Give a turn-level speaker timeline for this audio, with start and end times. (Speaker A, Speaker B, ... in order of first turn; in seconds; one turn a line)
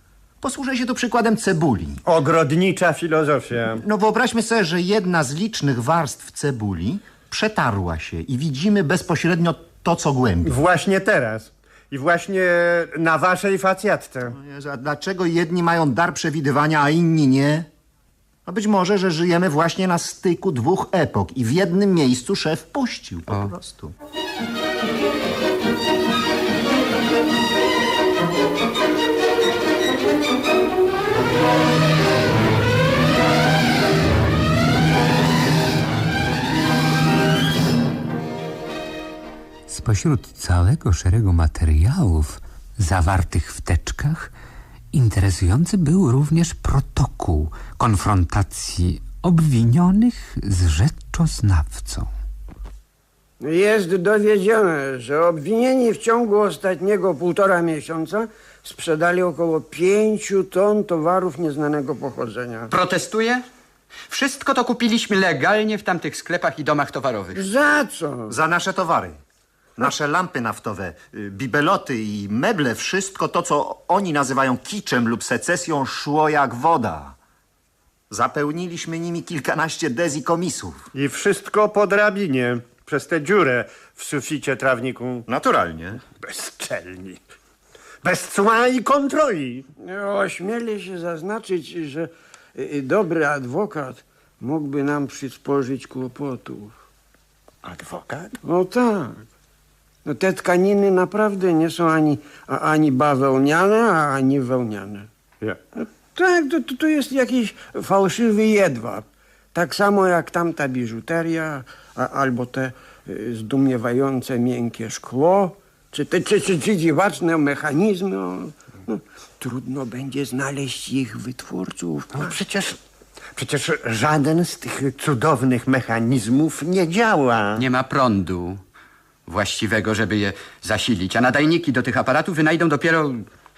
Speaker A: 0.4-2.0
Speaker B: 2.0-3.8
Speaker A: 3.8-10.6
Speaker B: 10.4-14.4
Speaker A: 14.3-17.7
Speaker A: 18.5-23.9
Speaker C: 39.7-44.3
Speaker C: 44.9-52.1
Speaker D: 53.4-62.7
Speaker E: 62.7-63.4
Speaker E: 64.1-67.5
Speaker D: 67.3-68.4
Speaker A: 68.3-69.2
Speaker A: 69.8-77.2
Speaker A: 78.1-80.8
Speaker B: 80.9-85.3
Speaker A: 85.3-86.0
Speaker B: 86.2-87.2
Speaker B: 88.0-89.7
Speaker D: 89.8-96.8
Speaker B: 97.6-98.4
Speaker D: 98.4-99.2
Speaker D: 100.0-105.1
Speaker D: 105.8-122.4
Speaker B: 122.1-122.8
Speaker B: 123.4-127.6
Speaker E: 127.6-128.6
Speaker E: 129.3-133.3